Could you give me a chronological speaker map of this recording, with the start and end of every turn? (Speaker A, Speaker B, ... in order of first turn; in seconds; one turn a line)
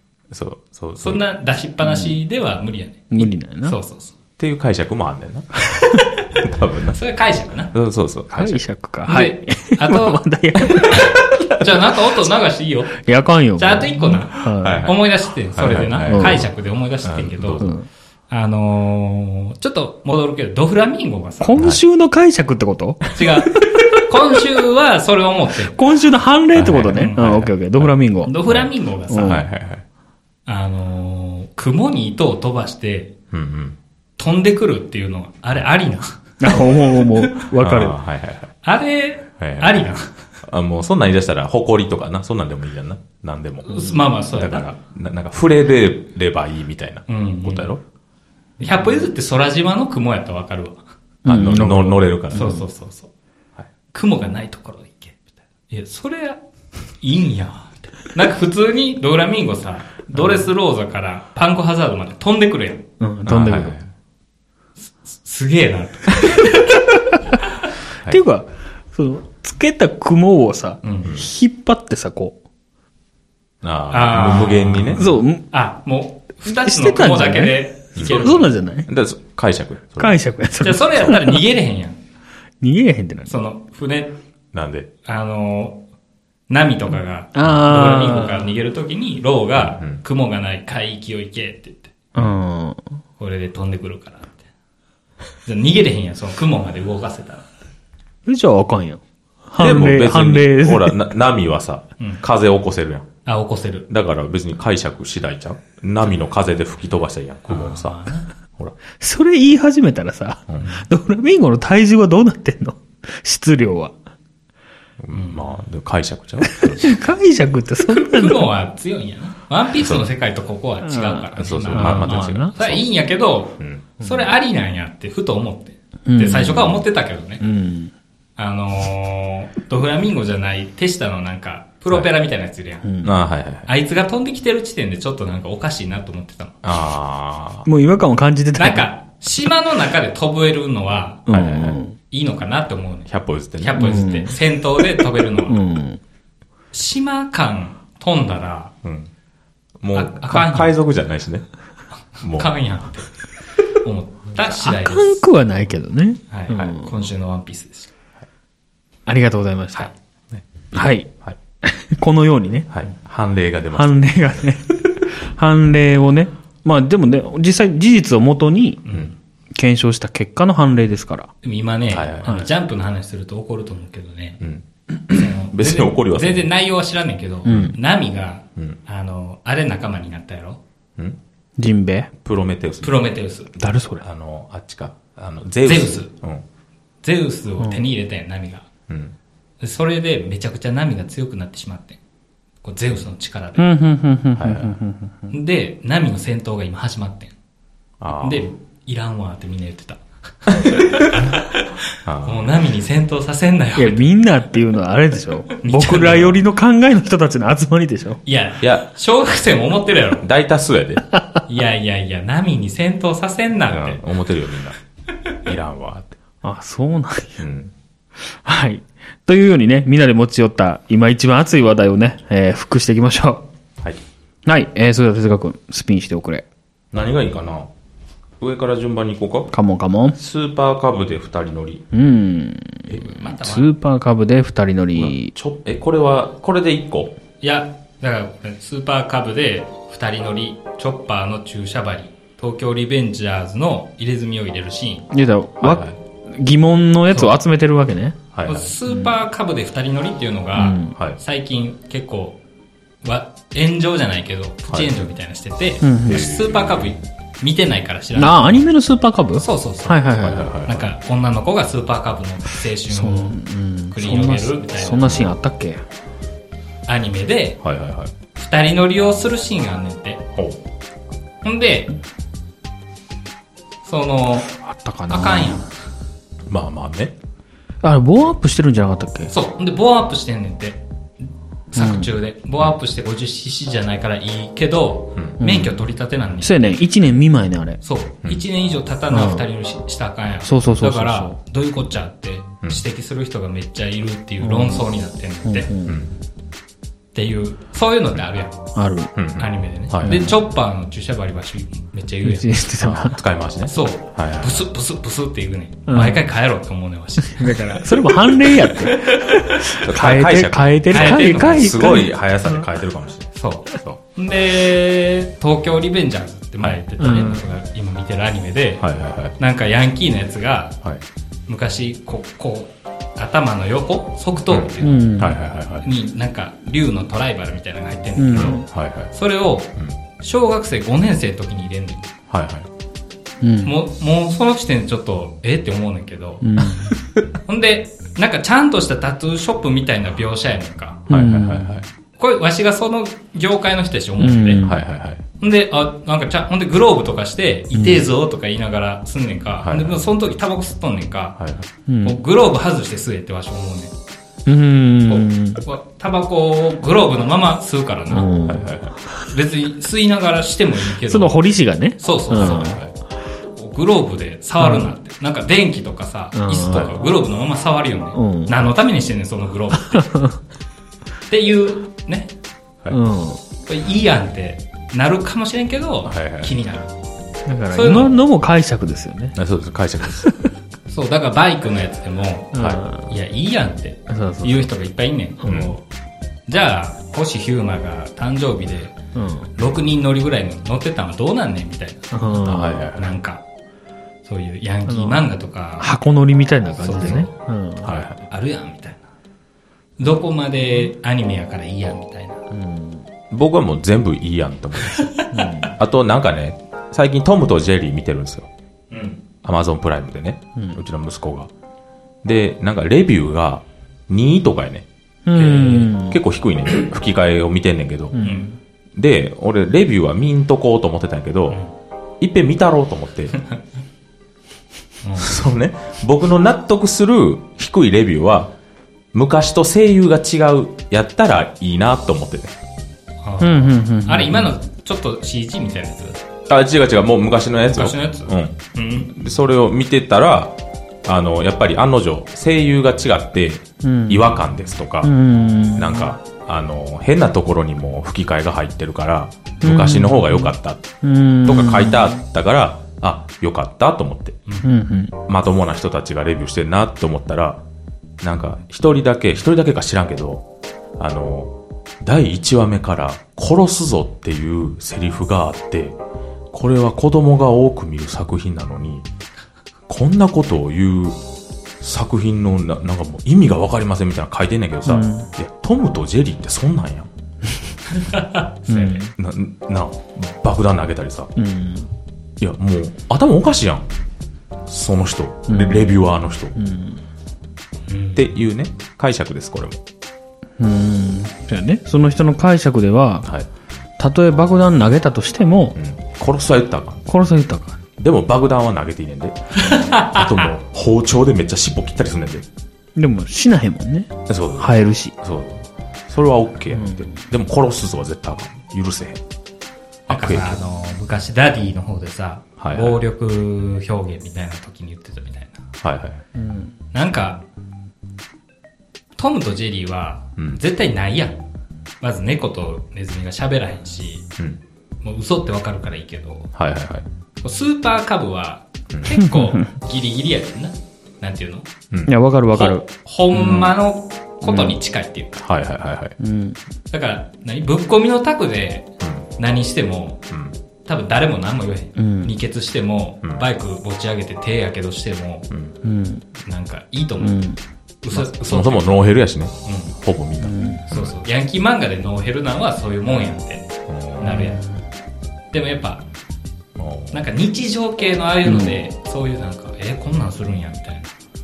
Speaker A: 0.3-1.2
Speaker B: 1.0-4.1
Speaker C: 1.8-2.1
Speaker C: 3.1-3.8
Speaker A: 4.4-5.6
Speaker C: 5.7-6.0
Speaker B: 5.9-6.3
Speaker A: 6.4-7.0
Speaker B: 6.9-7.7
Speaker A: 7.7-8.6
Speaker C: 8.3-11.3
Speaker B: 9.1-13.0
Speaker C: 13.0-14.9
Speaker B: 13.6-17.7
Speaker A: 14.4-15.0
Speaker A: 15.5-16.5
Speaker C: 16.1-16.4
Speaker A: 17.0-17.7
Speaker C: 17.6-17.9
Speaker B: 18.3-21.6
Speaker C: 21.4-23.9
Speaker B: 23.1-25.8
Speaker C: 25.7-28.3
Speaker A: 26.5-27.9
Speaker B: 26.7-27.5
Speaker B: 28.2-29.4
Speaker A: 28.5-29.8
Speaker C: 29.1-29.4
Speaker B: 30.4-33.1
Speaker A: 33.3-33.8
Speaker B: 34.2-37.1
Speaker C: 36.4-38.0
Speaker A: 37.6-38.5
Speaker B: 38.6-40.2
Speaker A: 39.4-39.9
Speaker A: 40.4-43.8
Speaker B: 43.6-44.7
Speaker A: 44.3-47.8
Speaker B: 47.1-47.7
Speaker B: 48.6-50.8
Speaker A: 51.2-52.6
Speaker C: 51.2-52.6
Speaker B: 52.3-53.1
Speaker B: 53.9-56.4
Speaker B: 57.0-62.8
Speaker C: 63.0-63.8
Speaker A: 63.3-63.9
Speaker B: 64.8-66.9
Speaker C: 68.0-72.4
Speaker B: 70.8-71.1
Speaker A: 73.6-75.2
Speaker B: 73.9-78.5
Speaker C: 74.9-75.4
Speaker C: 76.5-78.9
Speaker A: 78.0-80.2
Speaker C: 80.0-81.4
Speaker B: 80.6-82.0
Speaker C: 82.6-83.3
Speaker B: 83.3-84.2
Speaker A: 84.5-84.9
Speaker B: 85.0-85.8
Speaker B: 86.5-92.0
Speaker C: 87.3-88.5
Speaker A: 89.6-90.0
Speaker C: 92.1-92.8
Speaker B: 93.2-94.4
Speaker B: 95.4-97.5
Speaker C: 98.2-101.0
Speaker A: 99.6-103.1
Speaker B: 103.2-103.9
Speaker A: 103.9-108.0
Speaker B: 107.5-108.3
Speaker C: 109.0-113.9
Speaker A: 110.5-110.8
Speaker A: 115.0-117.0
Speaker B: 115.1-115.5
Speaker C: 116.5-118.5
Speaker B: 117.9-127.4
Speaker C: 120.8-122.6
Speaker A: 121.4-122.8
Speaker A: 123.6-123.9
Speaker C: 126.0-126.8
Speaker C: 127.4-127.9
Speaker B: 128.4-132.9
Speaker C: 132.8-133.1
Speaker A: 133.0-133.7
Speaker B: 133.7-136.6
Speaker A: 136.6-137.7
Speaker C: 137.7-138.9
Speaker B: 138.6-145.6
Speaker C: 141.3-141.9
Speaker A: 141.3-141.8
Speaker A: 143.1-144.1
Speaker C: 143.8-144.3
Speaker C: 145.4-146.0
Speaker B: 146.7-148.7
Speaker A: 148.8-149.1
Speaker A: 149.8-151.4
Speaker B: 149.9-150.8
Speaker B: 152.1-153.1
Speaker A: 152.2-152.5
Speaker B: 153.7-155.2
Speaker C: 154.5-156.9
Speaker B: 156.3-157.9
Speaker C: 159.1-159.9
Speaker C: 160.7-161.1
Speaker C: 161.6-162.7
Speaker A: 162.7-164.4
Speaker C: 163.7-168.8
Speaker B: 168.8-169.1
Speaker C: 169.5-171.3
Speaker B: 171.4-174.4
Speaker A: 171.9-172.3
Speaker A: 174.4-176.4
Speaker B: 175.1-180.6
Speaker C: 177.4-177.8
Speaker A: 177.5-177.8
Speaker C: 181.6-182.1
Speaker A: 182.2-183.1
Speaker B: 182.8-183.5
Speaker C: 183.6-184.0
Speaker A: 184.0-186.4
Speaker B: 185.6-186.1
Speaker B: 187.0-188.7
Speaker A: 188.9-189.1
Speaker B: 189.6-192.0
Speaker B: 192.6-193.7
Speaker C: 193.6-195.3
Speaker A: 194.3-194.8
Speaker B: 195.3-197.3
Speaker A: 198.0-198.5
Speaker B: 198.2-204.0
Speaker A: 200.7-201.2
Speaker A: 202.0-202.6
Speaker C: 203.8-208.2
Speaker B: 205.5-206.4
Speaker B: 208.2-210.2
Speaker A: 208.6-208.9
Speaker A: 210.2-211.1
Speaker B: 211.5-214.0
Speaker A: 213.7-214.8
Speaker A: 215.4-216.2
Speaker C: 216.4-217.4
Speaker A: 217.4-217.7
Speaker C: 218.2-223.4
Speaker C: 224.4-226.4
Speaker A: 226.9-227.7
Speaker A: 228.4-229.5
Speaker C: 229.5-230.2
Speaker A: 230.2-231.8
Speaker C: 231.9-235.3
Speaker A: 232.9-233.2
Speaker B: 233.2-233.7
Speaker A: 234.9-237.2
Speaker B: 237.4-245.1
Speaker C: 245.1-248.2
Speaker A: 245.6-245.9
Speaker A: 248.3-248.7
Speaker B: 248.5-252.4
Speaker C: 248.9-249.1
Speaker C: 250.6-250.9
Speaker B: 253.0-258.7
Speaker A: 254.7-255.0
Speaker C: 255.8-256.3
Speaker A: 256.1-256.9
Speaker C: 258.1-260.5
Speaker B: 259.4-260.1
Speaker A: 260.2-260.9
Speaker B: 260.6-263.4
Speaker C: 262.9-265.8
Speaker B: 263.9-265.2
Speaker A: 265.0-265.3
Speaker B: 266.9-267.6
Speaker A: 267.6-268.1
Speaker B: 268.4-270.2
Speaker B: 271.4-272.0
Speaker B: 273.8-274.5
Speaker C: 274.5-275.6
Speaker B: 275.1-275.7
Speaker A: 276.5-277.1
Speaker C: 277.8-279.3
Speaker B: 279.3-280.8
Speaker B: 281.7-286.8
Speaker C: 281.8-282.1
Speaker C: 285.4-285.7
Speaker C: 286.4-287.8
Speaker B: 287.8-295.7
Speaker C: 289.1-289.4
Speaker C: 290.4-291.4
Speaker C: 294.4-294.9
Speaker C: 295.4-295.9
Speaker A: 295.9-296.1
Speaker B: 297.1-298.6
Speaker C: 298.7-299.1
Speaker A: 299.1-300.3
Speaker B: 299.4-302.5
Speaker C: 300.0-300.4
Speaker C: 302.2-303.2
Speaker A: 302.8-304.6
Speaker B: 303.7-309.4
Speaker C: 305.9-306.2
Speaker C: 307.3-312.6
Speaker A: 309.6-314.0
Speaker B: 310.9-312.0
Speaker B: 313.3-318.8
Speaker C: 317.0-317.4
Speaker A: 318.8-319.4
Speaker B: 319.4-320.8
Speaker B: 321.5-325.2
Speaker A: 324.5-325.9
Speaker C: 324.8-325.4
Speaker B: 325.8-332.1
Speaker C: 328.2-328.6
Speaker A: 328.4-329.1
Speaker A: 332.3-332.7
Speaker C: 333.4-333.7
Speaker B: 333.6-336.7
Speaker C: 336.4-336.9
Speaker B: 337.4-341.1
Speaker C: 341.1-341.7
Speaker A: 341.1-341.9
Speaker B: 342.2-344.7
Speaker C: 344.2-344.8
Speaker A: 344.6-345.2
Speaker B: 345.4-351.4
Speaker C: 347.7-348.1
Speaker A: 349.6-350.0
Speaker C: 351.9-352.2
Speaker B: 352.0-353.9
Speaker C: 354.4-355.6
Speaker B: 355.1-358.3
Speaker C: 358.1-358.8
Speaker A: 358.5-358.9
Speaker B: 359.2-361.4
Speaker C: 361.0-362.8
Speaker B: 362.0-362.8
Speaker A: 362.3-362.9
Speaker B: 363.6-370.1
Speaker C: 364.6-364.9
Speaker C: 366.3-367.0
Speaker C: 368.1-368.5
Speaker C: 369.9-370.4
Speaker B: 371.3-372.3
Speaker C: 372.9-373.4
Speaker B: 373.6-376.9
Speaker A: 376.1-376.5
Speaker C: 377.4-379.4
Speaker B: 377.7-378.1
Speaker A: 379.3-380.3
Speaker B: 380.9-385.8
Speaker C: 382.5-383.1
Speaker C: 384.1-384.7
Speaker A: 385.4-385.7
Speaker B: 386.5-388.9
Speaker C: 389.1-389.5
Speaker B: 389.6-393.4
Speaker C: 392.1-392.9
Speaker A: 392.4-393.1
Speaker B: 394.2-395.9
Speaker C: 394.9-395.2
Speaker C: 395.8-397.9
Speaker B: 396.8-397.3
Speaker A: 397.8-398.2
Speaker B: 398.3-399.1
Speaker B: 400.0-402.4
Speaker C: 402.5-403.0
Speaker A: 403.3-405.1
Speaker B: 404.9-405.3
Speaker C: 405.3-405.8
Speaker A: 405.7-408.5
Speaker B: 408.9-409.2
Speaker A: 409.4-411.5
Speaker A: 412.2-414.9
Speaker C: 415.2-416.2
Speaker B: 415.3-415.9
Speaker A: 415.9-418.2
Speaker C: 418.1-418.5
Speaker B: 418.2-418.5
Speaker A: 418.9-421.6
Speaker A: 422.2-423.4
Speaker B: 425.0-425.4
Speaker A: 425.2-428.5
Speaker A: 429.1-432.5
Speaker B: 433.2-436.2
Speaker C: 433.4-434.5
Speaker A: 436.5-445.1
Speaker B: 437.7-439.1
Speaker C: 443.8-444.4
Speaker C: 445.0-446.1
Speaker A: 445.7-450.9
Speaker C: 449.6-452.2
Speaker A: 451.4-454.4
Speaker C: 454.6-455.1
Speaker A: 455.3-457.6
Speaker A: 458.2-460.4
Speaker A: 461.0-466.0
Speaker A: 466.5-469.1
Speaker A: 469.9-471.2
Speaker A: 471.8-477.1
Speaker C: 474.9-475.3
Speaker B: 477.9-479.1
Speaker C: 478.7-479.1
Speaker A: 479.2-481.3
Speaker C: 481.4-481.9
Speaker A: 482.4-483.9
Speaker A: 484.7-486.6
Speaker C: 485.5-486.0
Speaker C: 486.5-487.0
Speaker B: 487.9-488.2
Speaker A: 488.1-489.8
Speaker C: 490.6-493.3
Speaker C: 494.0-495.8
Speaker A: 495.8-497.1
Speaker C: 497.1-497.8
Speaker A: 498.0-502.4
Speaker B: 499.6-500.5
Speaker C: 502.9-505.1
Speaker A: 504.3-509.2
Speaker C: 506.7-507.1
Speaker A: 510.1-510.6
Speaker B: 510.1-515.6
Speaker A: 512.6-513.0
Speaker A: 515.8-516.2
Speaker C: 516.3-516.7
Speaker B: 516.9-517.4
Speaker B: 519.2-521.4
Speaker B: 522.0-524.2
Speaker B: 525.0-526.5
Speaker A: 526.5-527.0
Speaker B: 527.4-531.7
Speaker A: 528.9-529.2
Speaker C: 529.1-529.6
Speaker C: 532.0-533.7
Speaker B: 532.5-535.4
Speaker C: 534.5-534.7
Speaker A: 535.4-536.1
Speaker C: 536.2-536.6
Speaker B: 536.9-538.9
Speaker A: 539.0-539.3
Speaker B: 539.4-540.2
Speaker B: 540.8-545.5
Speaker C: 542.0-542.3
Speaker C: 545.8-546.2
Speaker B: 546.4-547.4
Speaker C: 547.2-547.6
Speaker B: 548.0-549.0
Speaker A: 548.1-551.1
Speaker B: 549.6-549.9
Speaker C: 550.4-550.8
Speaker B: 550.9-553.7
Speaker A: 553.9-554.4
Speaker B: 554.2-554.6
Speaker C: 554.2-554.8
Speaker B: 555.5-556.0
Speaker A: 556.8-557.2
Speaker B: 557.1-561.1
Speaker C: 558.5-558.8